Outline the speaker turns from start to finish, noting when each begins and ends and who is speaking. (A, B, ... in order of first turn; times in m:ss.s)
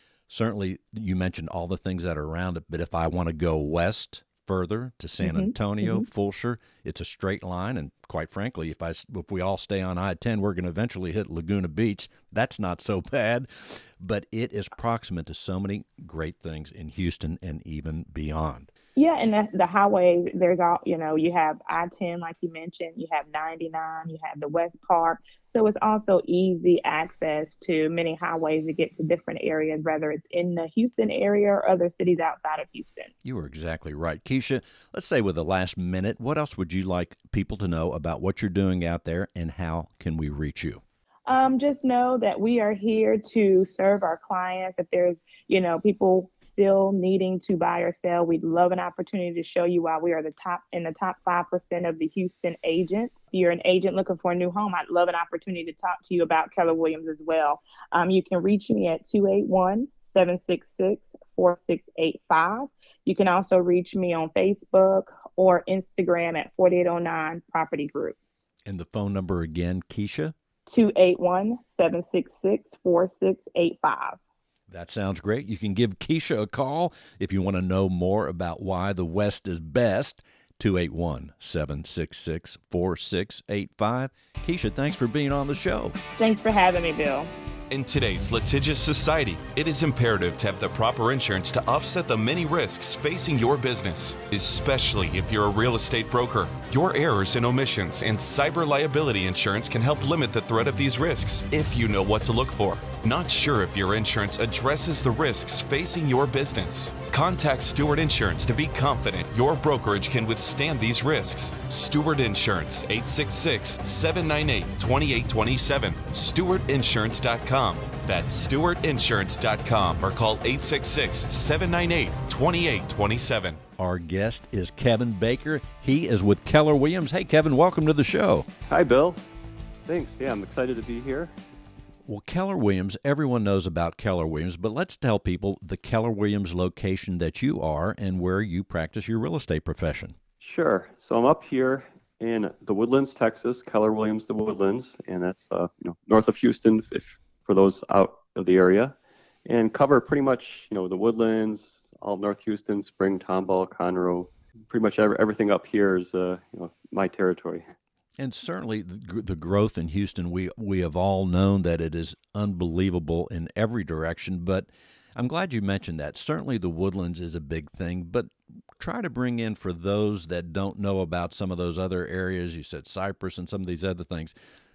0:00.3-0:18.7 A
0:05.2-0:06.1 B
0:19.0-0:33.1 B
0:33.2-0:40.8 A
0:41.3-1:08.3 B
1:08.6-1:10.4 A
1:10.7-1:14.2 B
1:14.7-1:26.0 A
1:26.2-1:27.3 B
1:27.7-2:03.6 C
2:03.8-2:08.5 A
2:08.7-2:09.2 D
2:09.9-2:11.3 D
2:12.1-2:20.2 A
2:20.4-2:29.0 D
2:29.5-2:37.7 D
2:38.2-2:54.4 A